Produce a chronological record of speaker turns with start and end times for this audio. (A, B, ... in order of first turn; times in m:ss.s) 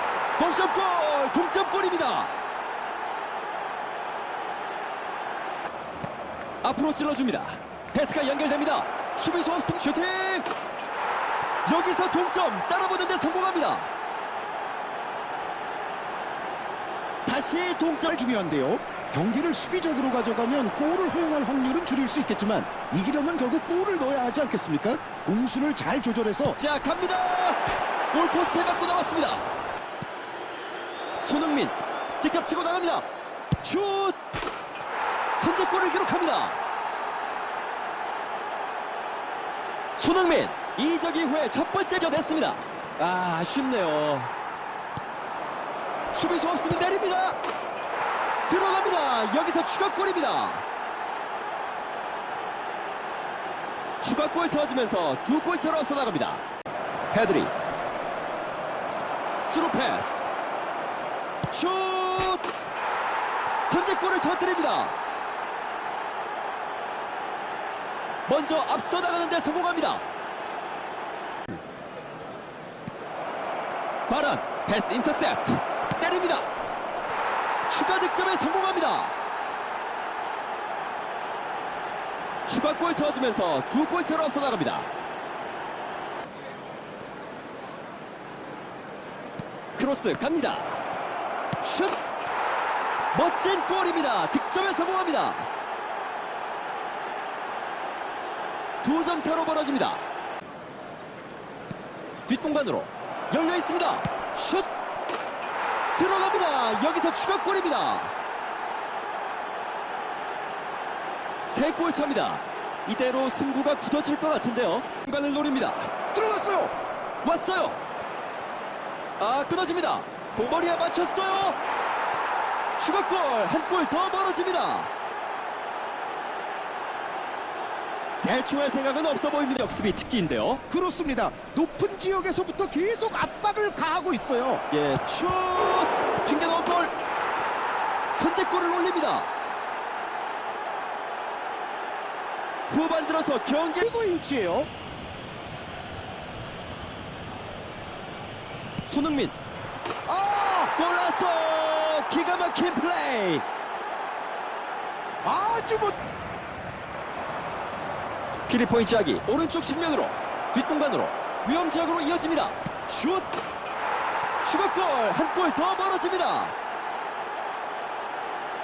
0:00.4-0:02.3 A
0:06.6-0:10.5 A
0:11.7-0:13.9 A
0:17.3-0:18.1 A
0:18.1-0:26.6 B
0:26.6-0:27.6 A
0:28.1-0:29.4 A
0:31.2-0:33.1 A
0:33.6-0:34.2 A
0:35.4-0:36.6 A
0:40.0-0:44.3 A
0:46.1-0:47.4 A
0:48.5-0:50.6 A
0:54.0-0:56.4 A
0:57.1-0:57.5 A
0:59.4-1:00.3 A
1:01.5-1:02.4 A
1:03.6-1:04.9 A
1:08.3-1:10.1 A
1:14.1-1:16.5 A
1:17.7-1:19.1 A
1:22.5-1:24.9 A
1:29.8-1:30.8 A
1:31.6-1:32.0 A
1:33.1-1:35.5 A
1:38.8-1:40.0 A
1:42.3-1:44.7 A
1:46.0-1:48.1 A
1:51.5-1:55.9 A
1:56.1-1:56.7 B
1:57.2-1:57.8 A
1:59.2-2:01.6 A
2:02.8-2:04.9 A
2:08.2-2:10.6 A
2:10.7-2:14.6 B
2:14.7-2:16.9 A
2:18.1-2:19.3 A
2:22.7-2:23.9 A
2:23.8-2:24.7 B
2:28.8-2:29.4 A
2:30.1-2:30.7 B
2:30.8-2:33.4 A
2:35.2-2:36.0 B
2:38.5-2:43.3 A
2:44.4-2:46.6 A